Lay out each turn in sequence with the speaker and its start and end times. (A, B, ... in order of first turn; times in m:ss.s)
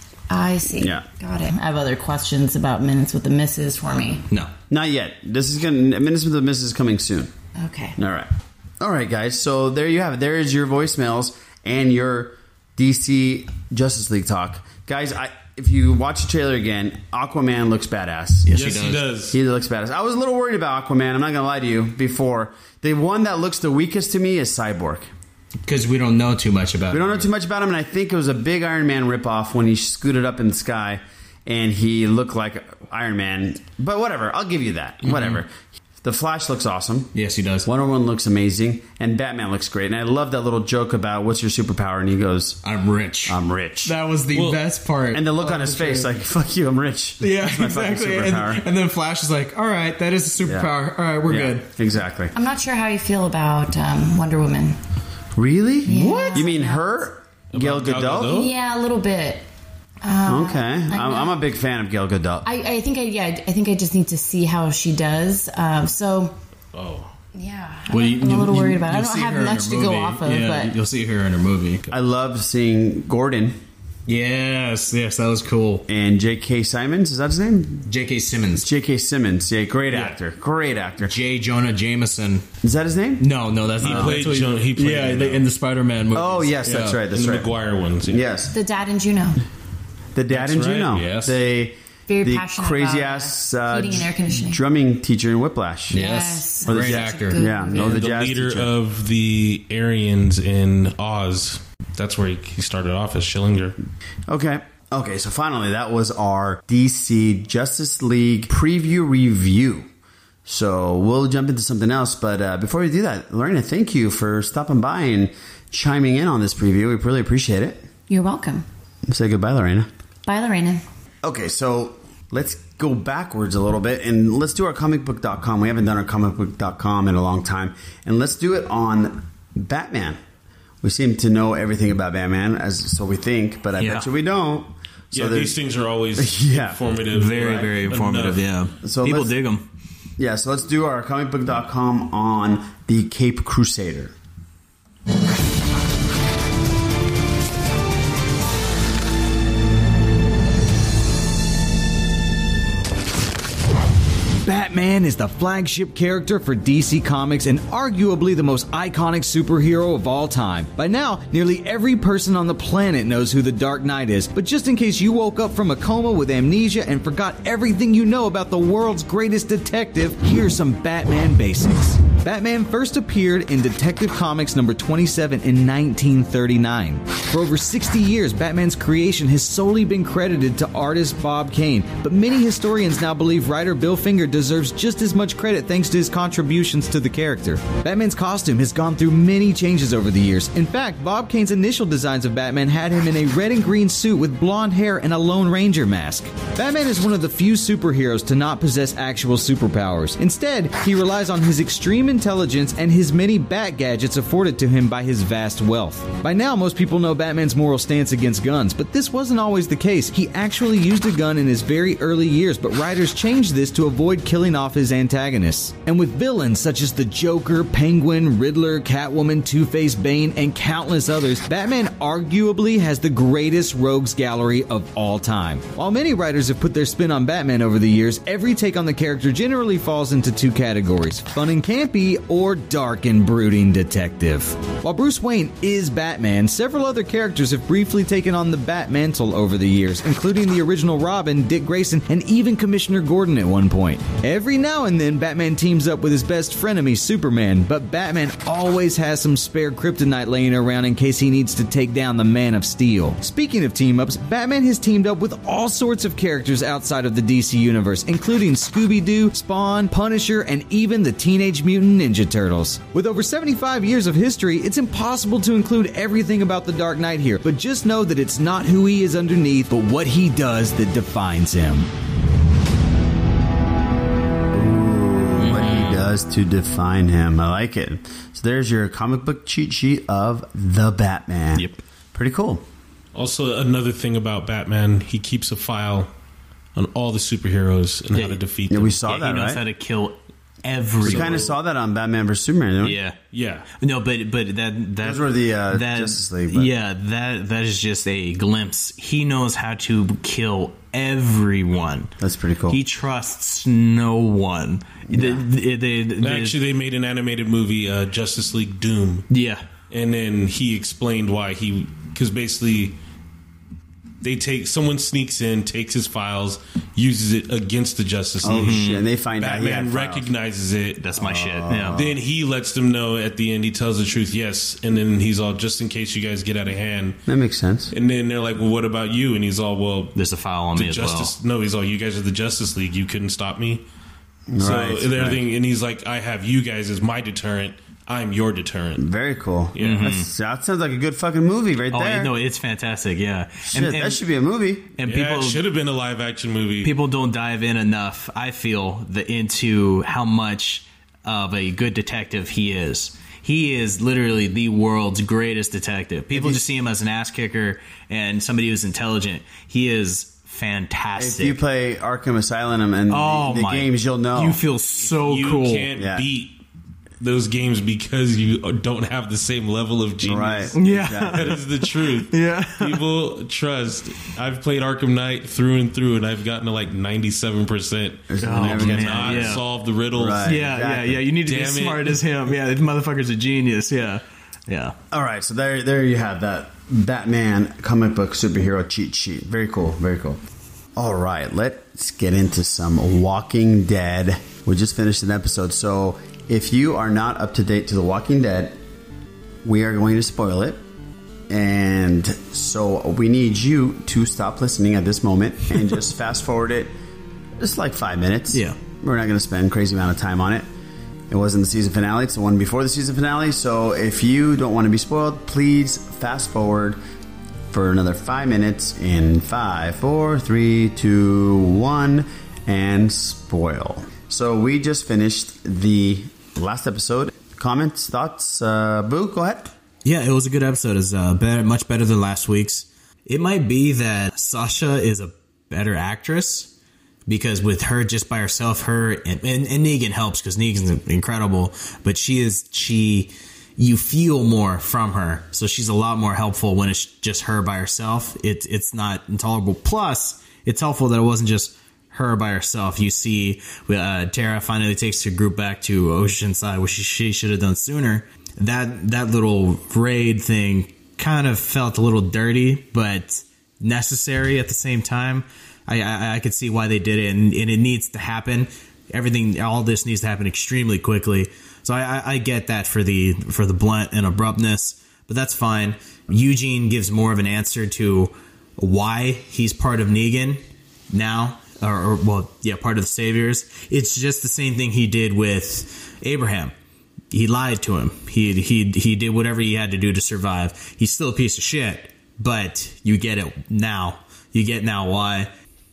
0:00.3-0:04.2 A
0:00.8-0:01.0 B
0:04.7-0:07.3 B
0:07.6-0:08.0 A
0:08.0-0:18.5 B
0:18.4-0:19.0 C
0:18.5-0:19.4 D
0:19.3-0:25.1 B
0:25.6-0:27.3 C
0:26.9-0:35.5 B
0:35.0-0:35.4 C
0:36.0-0:37.1 B
0:37.1-0:37.7 C
0:37.6-0:42.6 B
0:42.6-0:46.1 C
0:43.2-0:43.9 B
0:44.3-0:44.6 D
0:45.1-0:48.6 B
0:47.2-0:51.7 C
0:50.4-0:50.7 B
0:51.2-0:52.3 B
0:52.3-0:54.8 A
0:55.4-0:58.4 B
0:55.8-0:57.1 A
0:57.5-0:58.5 D
0:58.3-0:59.5 A
1:00.0-1:01.4 A
1:00.2-1:02.5 B
1:02.4-1:06.4 A
1:06.7-1:07.1 D
1:07.3-1:10.7 A
1:07.9-1:11.8 C
1:11.9-1:13.6 B
1:14.1-1:15.8 C
1:15.9-1:17.9 B
1:17.9-1:18.7 C
1:18.6-1:21.1 B
1:21.0-1:22.4 C
1:22.6-1:23.3 B
1:23.2-1:27.0 C
1:23.8-1:24.2 B
1:23.8-1:25.4 D
1:26.1-1:27.5 B
1:27.1-1:28.2 D
1:28.1-1:28.5 B
1:28.5-1:29.4 A
1:30.1-1:36.0 B
1:30.3-1:31.1 D
1:30.9-1:31.3 C
1:32.1-1:34.6 A
1:35.9-1:37.4 C
1:35.9-1:38.0 A
1:36.6-1:38.7 B
1:37.7-1:43.8 D
1:44.3-1:49.9 B
1:50.4-1:57.9 B
1:58.1-1:58.6 A
1:59.1-1:59.9 B
2:00.2-2:00.8 A
2:01.2-2:10.2 B
2:10.8-2:15.6 B
2:13.8-2:14.1 C
2:15.1-2:18.5 D
2:16.2-2:16.8 B
2:17.1-2:19.6 C
2:18.8-2:19.3 B
2:20.2-2:24.1 B
2:34.4-4:31.9 E
4:34.5-4:42.6 B
4:35.4-4:36.0 C
4:41.5-4:41.8 C
4:43.1-4:46.1 D
4:46.7-4:49.0 D
4:48.1-4:48.4 C
4:48.7-4:49.6 B
4:49.0-4:51.5 C
4:51.0-4:51.5 D
4:51.0-4:53.0 B
4:52.8-4:53.2 C
4:53.3-4:53.7 D
4:53.8-5:02.1 C
4:55.0-4:56.7 B
5:02.2-5:02.8 B
5:02.7-5:06.6 C
5:05.1-5:05.4 B
5:06.2-5:09.3 D
5:09.3-5:09.6 C
5:09.9-5:13.0 D
5:14.2-5:21.0 D
5:18.4-5:20.3 B
5:18.5-5:19.0 C
5:21.0-5:22.0 C
5:21.2-5:22.2 B
5:21.9-5:27.2 D
5:27.3-5:27.9 B
5:27.9-5:30.2 D
5:30.1-5:31.3 C
5:30.7-5:33.8 D
5:34.5-5:35.4 B
5:34.6-5:39.0 D
5:39.0-5:42.3 B
5:39.7-5:40.1 D
5:39.8-5:40.3 C
5:41.9-5:44.2 C
5:43.7-5:44.9 B
5:45.0-5:45.6 C
5:45.0-5:46.9 D
5:46.8-6:01.6 C
5:56.3-5:56.6 B
6:01.2-6:04.6 B
6:03.1-6:05.9 C
6:05.0-6:06.6 D
6:06.0-6:06.3 B
6:07.2-6:20.5 D
6:10.2-6:11.6 B
6:10.7-6:11.6 C
6:12.2-6:13.0 C
6:18.3-6:21.3 B
6:18.4-6:19.6 C
6:20.4-6:25.0 C
6:21.4-6:22.2 D
6:25.1-6:30.4 B
6:31.0-6:38.8 B
6:39.6-6:40.8 B
6:41.5-6:46.9 B
6:47.6-6:50.7 B
6:48.5-6:48.8 C
6:51.3-6:57.0 B
6:57.7-7:09.7 B
7:10.0-7:16.7 C
7:17.3-8:06.7 C
8:07.3-8:15.5 C